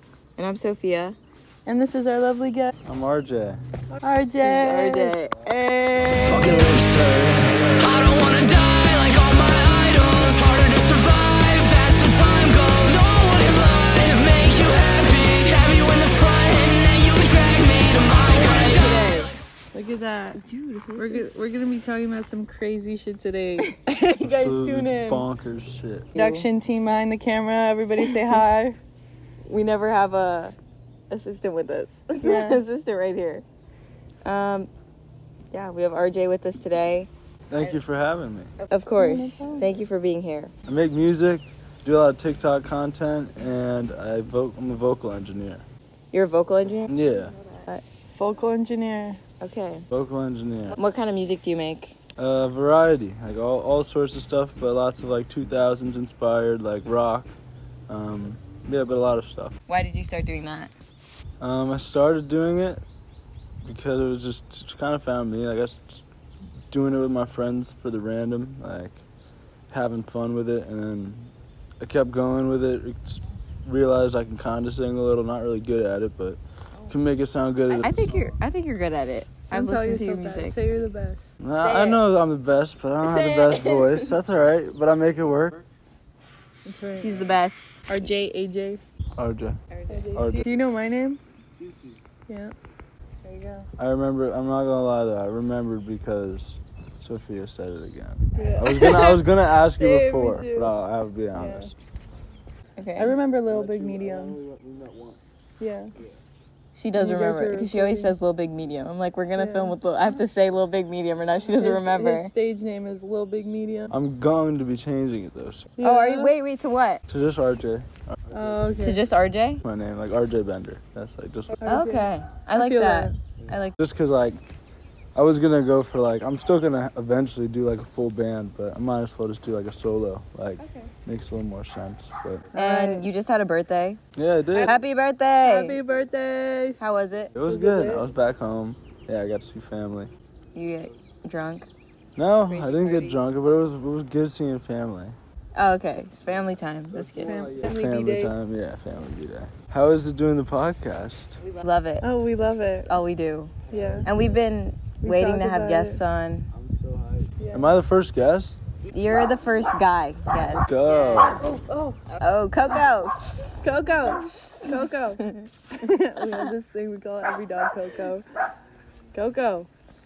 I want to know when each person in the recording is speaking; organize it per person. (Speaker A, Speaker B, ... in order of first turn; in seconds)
Speaker A: 0.4-1.1, 4.4-6.5, 13.3-16.2, 18.1-19.4, 20.4-21.2, 23.8-24.2, 26.1-26.4, 28.0-28.4, 29.4-30.5, 31.1-33.4, 34.2-34.7, 35.5-37.8, 38.6-40.5, 46.1-47.7, 49.4-49.9, 50.8-51.9, 59.7-60.7, 77.7-80.5, 81.6-82.0, 83.0-84.1, 87.0-87.8, 89.7-90.2, 102.8-103.2, 106.7-112.3, 115.8-117.0, 118.8-119.6, 121.6-123.8, 130.6-130.9, 132.5-134.0, 134.5-135.8, 136.8-137.3, 140.5-141.7, 142.5-143.2, 145.5-147.3, 151.4-156.5, 158.9-161.4, 162.2-165.5
Speaker B: 1.6-2.9, 4.0-5.2, 19.7-25.2, 26.1-28.8, 32.2-32.6, 39.0-39.7, 47.7-49.2, 79.5-81.3, 86.7-87.3, 87.9-88.8, 89.9-91.2, 92.3-92.5, 93.2-93.7, 98.3-99.2, 99.8-100.7, 101.3-101.7, 103.0-104.3, 105.6-105.9, 107.0-108.1, 109.4-109.8, 111.5-113.9, 115.8-116.3, 118.3-119.0, 121.6-123.2, 132.5-133.1, 135.4-136.8, 137.4-138.1, 147.2-148.3, 152.0-152.9, 153.7-154.1, 155.0-156.0, 157.4-157.8, 161.3-162.0, 163.6-165.2, 165.7-168.2, 169.1-169.7
Speaker C: 2.8-3.6, 6.2-8.1, 24.2-26.1, 37.5-38.5, 40.7-45.6, 46.9-47.3, 49.9-50.8, 52.2-57.4, 57.9-59.5, 61.4-62.8, 63.6-66.0, 66.7-69.0, 69.7-78.4, 81.4-85.6, 89.2-89.6, 90.1-90.5, 91.5-92.0, 93.8-101.8, 103.5-105.2, 105.9-106.2, 113.9-115.7, 117.1-118.8, 119.6-121.6, 123.4-124.4, 125.1-132.5, 134.2-134.7, 137.3-140.1, 142.2-145.2, 146.9-151.4, 153.7-154.3, 156.5-158.6, 160.6-161.4
Speaker D: 8.1-18.3